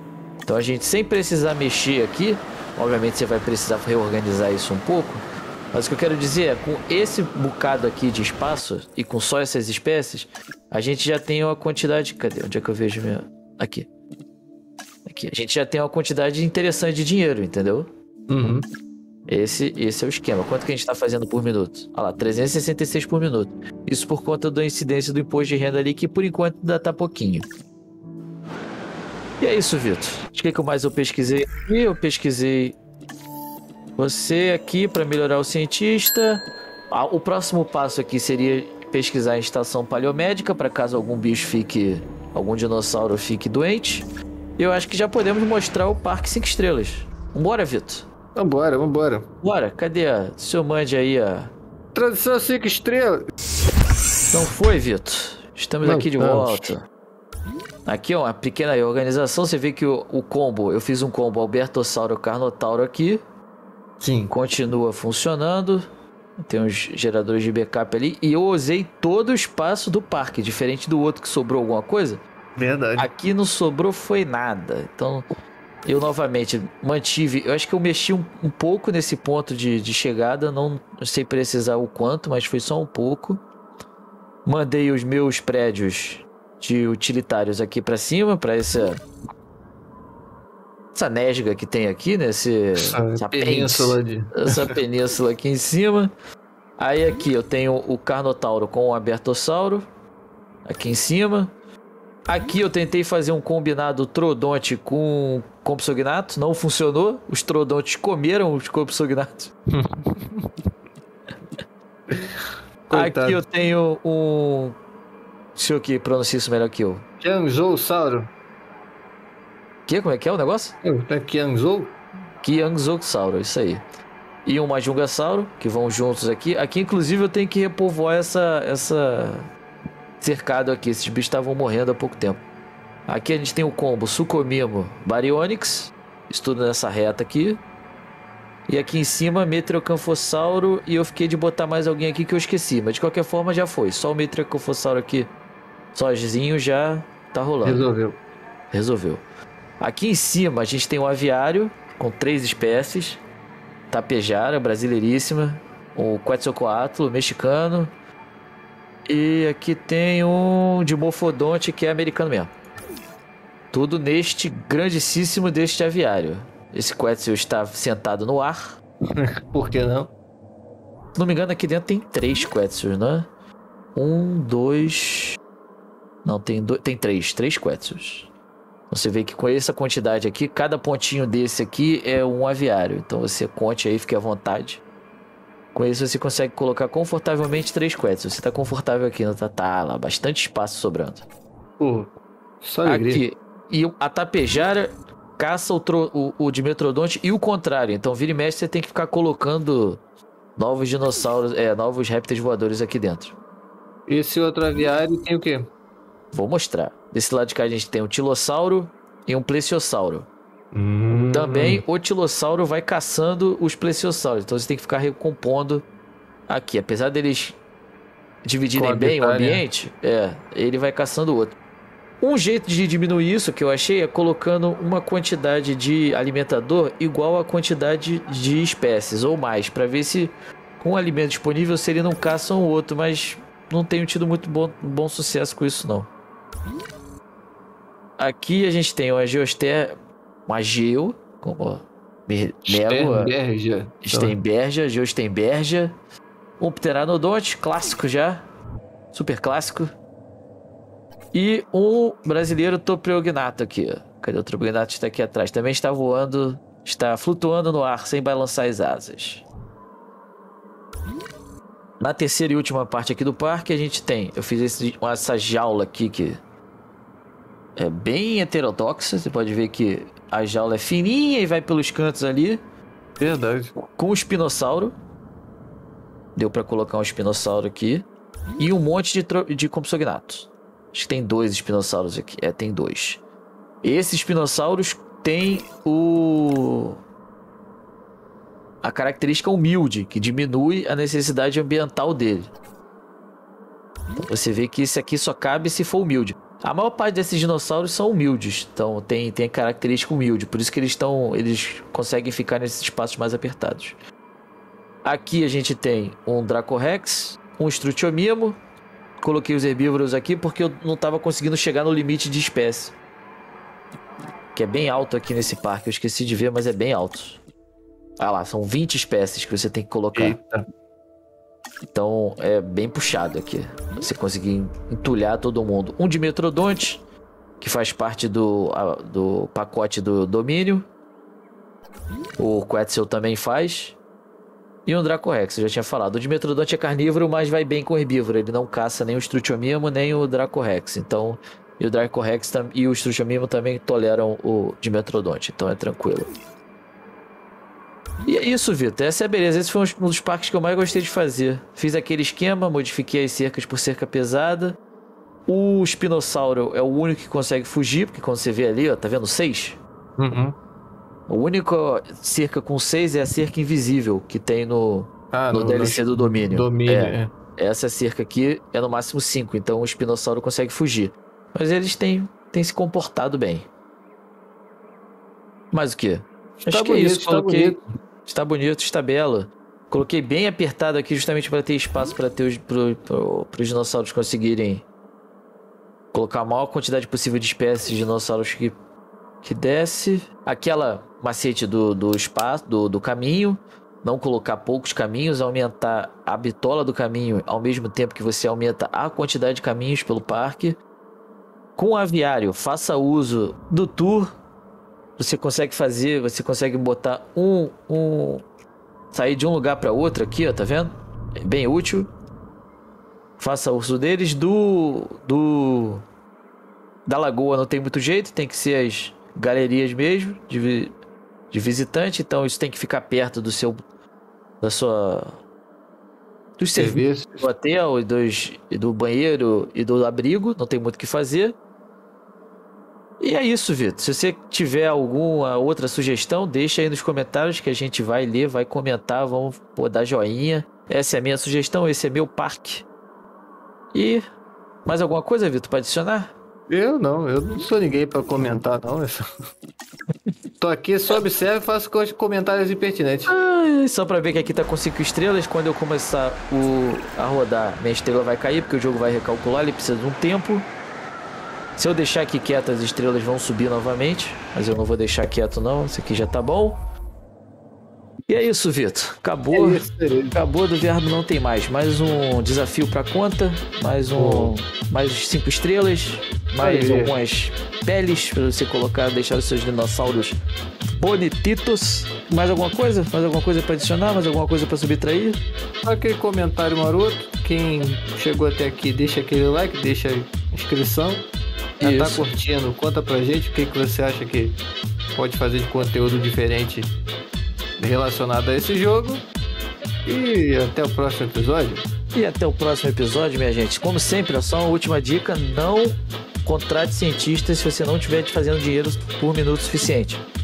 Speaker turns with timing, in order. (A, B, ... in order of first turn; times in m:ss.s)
0:00.5-0:13.9 A
0:15.0-0:17.9 A
0:18.3-0:18.7 B
0:19.3-0:27.5 A
0:29.4-0:32.8 A
0:34.0-0:44.1 A
0:44.6-0:48.1 A
0:48.4-0:49.3 B
0:49.4-0:51.5 A
0:52.0-0:53.3 B
0:54.3-0:56.9 A
0:55.8-0:56.7 B
0:57.9-1:03.2 A
1:04.0-1:04.3 B
1:04.3-1:05.8 A
1:06.4-1:12.2 A
1:12.6-1:13.1 B
1:13.0-1:15.2 A
1:15.9-1:23.4 A
1:24.5-1:29.0 A
1:30.9-1:36.1 A
1:32.8-1:34.7 B
1:36.8-1:39.8 A
1:40.6-1:41.5 A
1:42.3-1:49.5 A
1:49.7-1:50.5 B
1:52.1-1:53.4 B
1:52.9-1:54.8 A
1:55.6-1:57.0 A
1:57.2-1:58.3 B
1:59.9-2:00.8 A
2:00.8-2:02.0 B
2:02.4-2:03.8 A
2:04.4-2:09.5 A
2:10.2-2:12.4 A
2:13.1-2:17.6 A
2:18.7-2:25.3 A
2:25.9-2:27.8 A
2:27.6-2:28.2 B
2:28.7-2:29.2 A
2:29.8-2:33.2 A
2:33.9-2:37.9 A
2:39.1-2:42.5 A
2:43.7-2:48.8 A
2:49.2-2:50.1 B
2:51.2-2:53.3 A
2:54.0-2:55.4 A
2:56.2-2:58.3 A
2:58.9-3:04.8 A
3:05.7-3:11.3 A
3:11.8-3:13.2 B
3:12.8-3:20.0 A
3:20.6-3:23.4 A
3:24.1-3:25.7 B
3:26.3-3:30.3 A
3:30.7-3:31.8 B
3:31.3-3:35.9 A
3:36.5-3:37.6 A
3:38.4-3:41.6 A
3:38.7-3:39.6 B
3:42.2-3:56.1 A
3:58.2-4:00.0 A
4:00.5-4:03.3 A
4:02.7-4:04.4 B
4:04.0-4:06.0 A
4:06.6-4:08.5 A
4:09.1-4:09.9 A
4:11.3-4:19.4 A
4:22.0-4:26.4 A
4:27.8-4:32.6 A
4:33.2-4:33.7 B
4:34.0-4:34.9 A
4:36.4-4:38.1 A
4:38.6-4:43.2 A
4:43.8-4:47.0 A
4:48.8-4:52.5 A
4:54.2-5:04.0 A
5:05.0-5:08.6 A
5:09.2-5:13.0 A
5:14.6-5:17.4 A
5:18.2-5:20.4 A
5:20.2-5:20.6 B
5:21.9-5:27.0 A
5:27.6-5:30.9 A
5:32.4-5:34.0 A
5:34.9-5:46.3 A
5:48.3-5:54.8 A
5:55.5-5:59.8 A
6:00.2-6:00.6 B
6:01.3-6:13.7 A
6:05.3-6:07.3 B
6:15.7-6:24.8 A
6:16.7-6:17.8 B
6:26.1-6:28.8 A
6:29.4-6:40.8 A
6:41.8-6:44.4 A
6:45.2-6:48.4 A
6:49.1-6:52.1 A
6:53.4-6:56.0 A
6:57.1-7:00.9 A
7:01.5-7:03.8 A
7:04.6-7:05.4 A
7:06.6-7:11.6 A
7:06.8-7:07.5 B
7:13.2-7:22.9 A
7:23.9-7:24.2 A
7:24.9-7:26.3 A
7:26.7-7:29.2 B
7:30.6-7:33.3 B
7:33.3-7:40.7 A
7:41.8-7:46.8 A
7:48.3-8:00.4 A
7:49.5-7:50.4 B
7:54.2-7:54.5 B
7:56.6-7:57.2 B
8:01.0-8:05.4 A
8:05.8-8:11.3 B
8:11.8-8:12.2 A
8:11.8-8:14.6 B
8:15.2-8:16.9 B
8:17.8-8:19.2 B
8:20.1-8:21.9 B
8:22.1-8:30.2 A